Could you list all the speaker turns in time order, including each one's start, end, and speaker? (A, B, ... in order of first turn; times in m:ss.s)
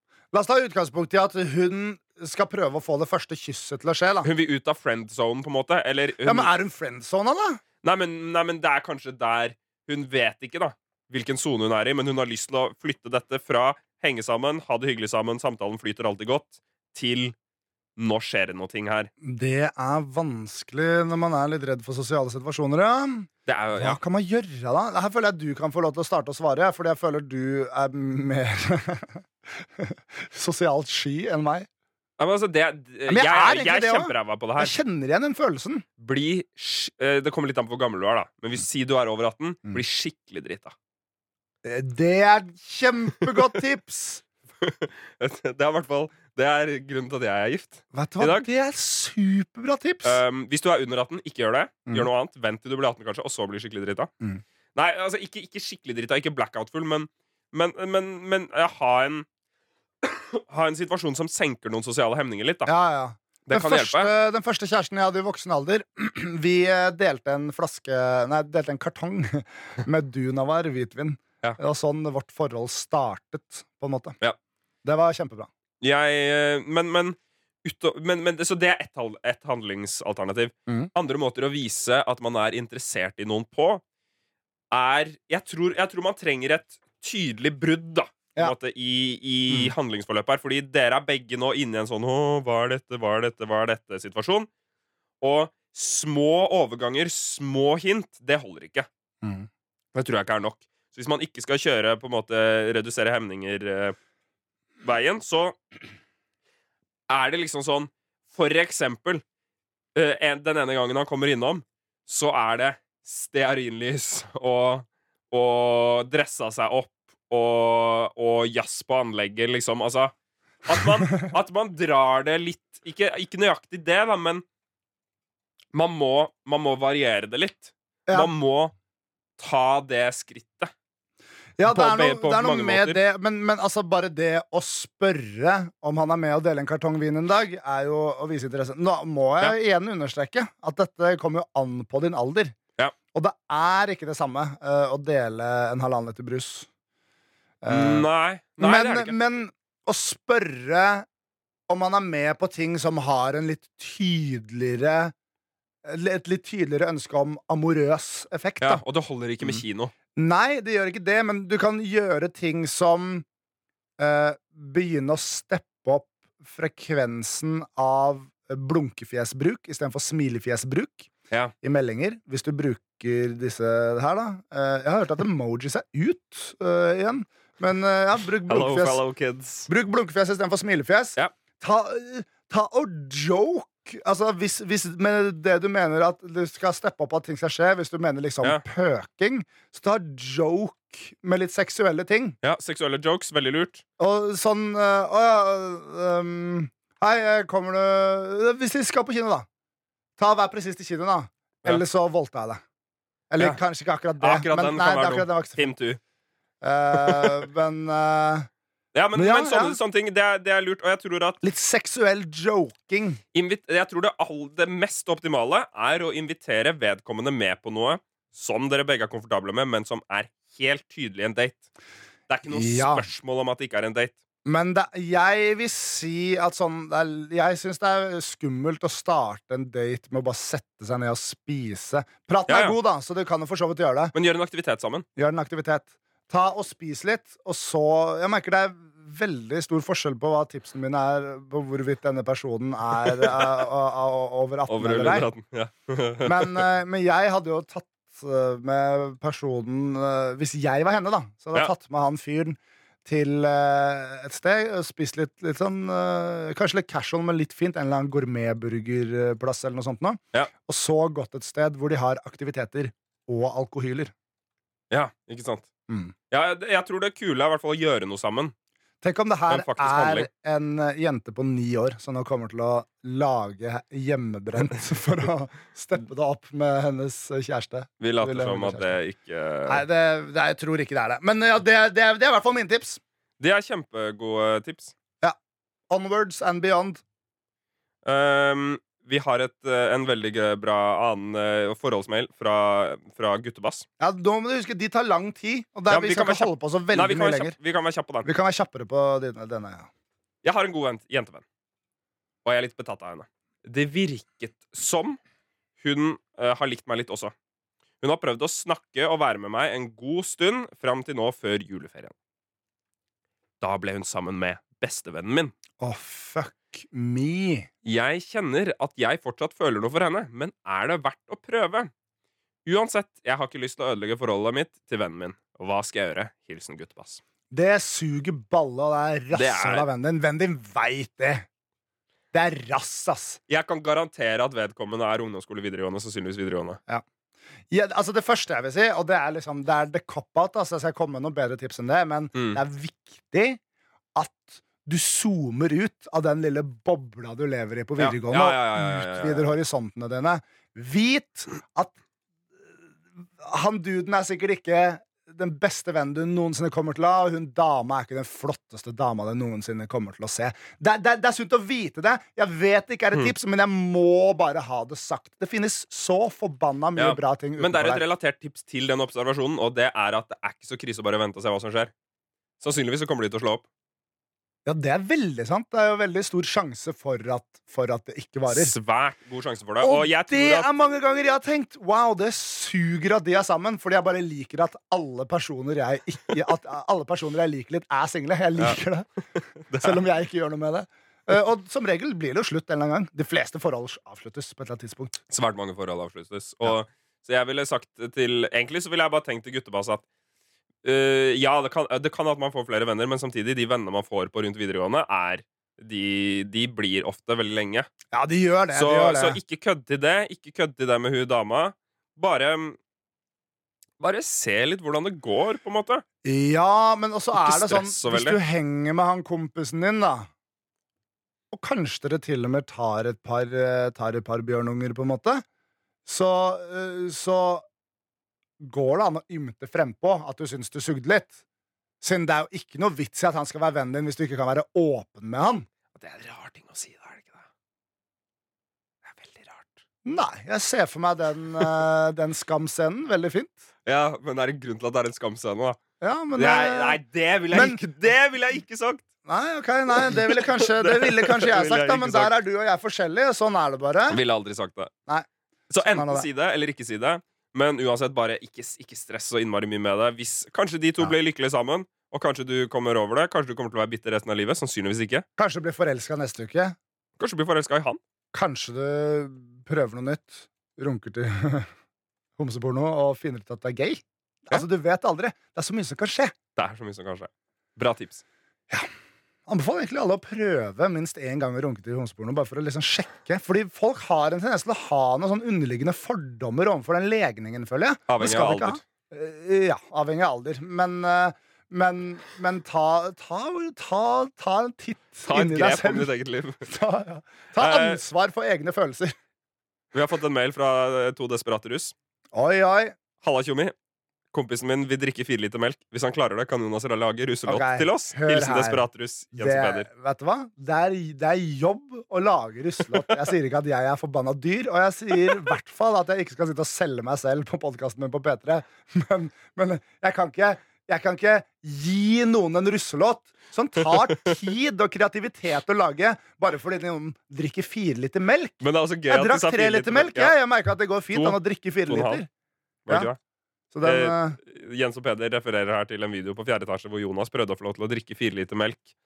0:00.3-0:04.3 A
0:04.2-0:06.5 B
0:06.2-0:07.6 A
0:07.8-0:17.4 B
0:18.0-0:19.1 B
0:19.2-0:31.7 A
0:23.5-0:24.0 B
0:32.2-0:34.8 B
0:33.1-0:35.8 A
0:36.0-0:40.7 B
0:41.6-0:44.2 A
0:44.6-0:48.5 B
0:47.9-0:50.2 A
0:50.0-0:54.1 B
0:54.8-0:59.3 B
1:00.0-1:02.7 B
1:02.7-1:14.2 A
1:03.5-1:04.1 B
1:14.8-1:15.5 A
1:15.8-1:23.8 B
1:24.7-1:34.5 B
1:35.2-1:38.9 B
1:39.2-1:39.5 A
1:39.9-1:44.0 B
1:44.8-1:45.6 B
1:47.1-1:49.2 B
1:50.0-2:00.1 B
2:00.7-2:04.4 B
2:05.7-2:08.7 B
2:09.4-2:10.7 B
2:11.6-2:22.6 A
2:11.7-2:13.0 B
2:23.1-2:26.7 A
2:27.6-2:28.1 A
2:27.7-2:29.2 B
2:28.6-2:31.1 A
2:31.7-2:35.1 A
2:35.8-2:38.8 A
2:38.6-2:39.9 B
2:40.2-2:43.2 A
2:44.0-2:51.1 A
2:51.6-2:59.0 A
2:58.5-2:59.7 B
2:59.7-3:12.4 A
3:12.4-3:13.8 B
3:14.0-3:19.5 A
3:20.2-3:22.6 A
3:23.3-3:25.7 A
3:24.2-3:26.0 B
3:26.6-3:28.5 A
3:27.0-3:27.4 B
3:28.9-3:31.4 B
3:29.1-3:29.8 A
3:31.4-3:33.2 A
3:33.3-3:41.6 B
3:42.3-3:44.2 B
3:42.5-3:43.1 A
3:44.4-3:54.1 A
3:52.5-3:52.8 B
3:54.1-3:55.1 B
3:55.2-4:05.3 A
4:04.7-4:06.7 B
4:06.2-4:24.1 A
4:24.9-4:25.7 B
4:25.9-4:26.1 A
4:26.3-4:28.5 B
4:29.0-4:39.0 A
4:29.5-4:30.3 B
4:38.0-4:39.8 B
4:39.7-4:43.0 A
4:43.4-4:44.9 B
4:45.9-4:47.0 A
4:48.0-4:53.9 B
4:54.0-4:57.6 A
4:55.9-4:58.3 B
4:58.2-4:59.9 A
5:00.4-5:01.4 B
5:02.4-5:05.2 B
5:05.8-5:07.3 B
5:08.0-5:12.1 B
5:13.6-5:15.5 B
5:15.8-5:17.7 A
5:17.8-5:21.9 B
5:22.6-5:27.2 B
5:27.5-5:31.5 A
5:29.3-5:29.9 B
5:32.3-5:33.4 A
5:33.5-5:36.8 B
5:37.7-5:43.6 A
5:42.3-5:42.6 B
5:44.2-5:51.9 A
5:48.0-5:49.5 B
5:53.4-6:08.0 A
6:07.0-6:11.9 B
6:12.6-6:13.6 B
6:14.6-6:18.8 A
6:18.5-6:20.7 B
6:19.8-6:29.1 A
6:29.7-6:30.0 B
6:29.8-6:35.2 A
6:35.3-6:40.0 B
6:40.8-6:47.9 B
6:48.1-6:49.4 A
6:48.7-6:52.8 B
6:54.0-6:56.0 B
6:56.2-7:00.3 A
6:57.4-6:58.4 B
7:01.5-7:05.4 A
7:06.0-7:07.6 A
7:08.6-7:11.4 A
7:12.0-7:15.7 A
7:16.0-7:17.5 B
7:19.1-7:19.8 B
7:20.0-7:23.6 A
7:23.9-7:25.8 B
7:26.0-7:27.0 A
7:26.4-7:29.0 B
7:27.5-7:27.8 A
7:29.2-7:34.2 A
7:30.0-7:32.4 B
7:34.1-7:34.9 B
7:35.1-7:36.3 A
7:35.7-7:45.3 B
7:45.4-7:46.8 A
7:47.2-7:48.0 B
7:48.3-7:51.7 A
7:52.4-7:56.4 A
7:56.6-7:58.2 B
7:59.5-8:16.1 A
8:08.1-8:08.8 B
8:15.2-8:16.6 B
8:16.6-8:19.2 A
8:17.6-8:18.0 B
8:19.9-8:21.9 B
8:22.3-8:23.0 A
8:23.2-8:23.8 B
8:24.3-8:29.9 B
8:27.5-8:52.3 A
8:48.6-8:50.3 B
8:51.1-8:52.2 B
8:52.9-8:53.2 B
8:53.7-8:54.4 A
8:53.8-8:58.9 B